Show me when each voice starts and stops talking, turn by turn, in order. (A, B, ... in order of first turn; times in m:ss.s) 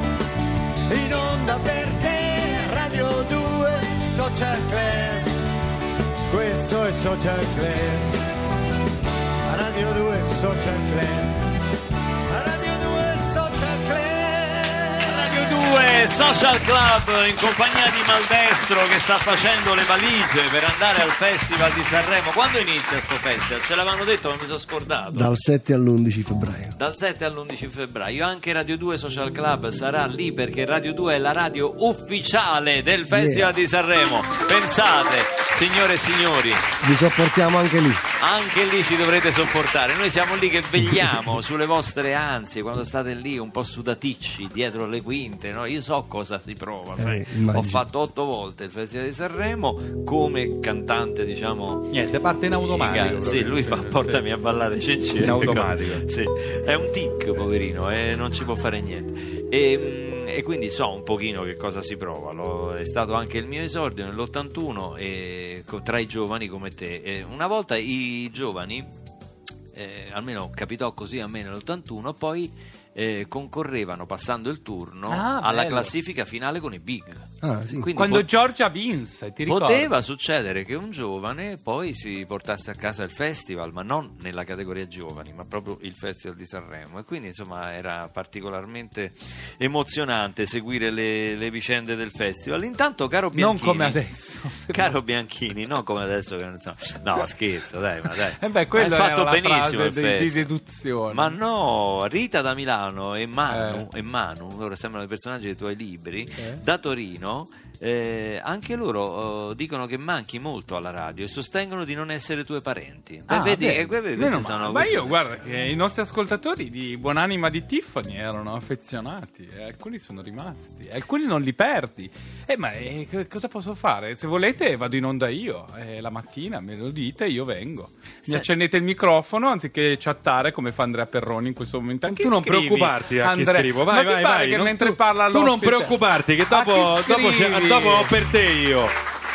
0:00.9-0:05.3 A
0:06.3-0:08.2 A
0:09.5-0:11.4 A
0:12.3-0:15.4 A
0:15.0-0:25.3 B
0:25.1-0:26.7 C
0:26.8-0:36.6 B
0:33.1-0:33.5 C
0:36.8-0:38.0 C
0:38.2-0:51.9 B
0:47.0-0:47.8 C
0:51.9-0:54.2 D
0:52.7-1:08.9 B
0:55.2-0:56.0 D
1:09.7-1:18.3 B
1:15.1-1:15.9 E
1:17.4-1:17.9 C
1:18.0-1:19.9 E
1:19.5-1:34.0 B
1:33.3-1:35.0 E
1:34.7-1:40.5 B
1:38.1-1:41.4 E
1:41.1-1:55.1 B
1:43.5-1:43.9 E
1:53.3-2:18.1 E
2:12.1-2:19.0 D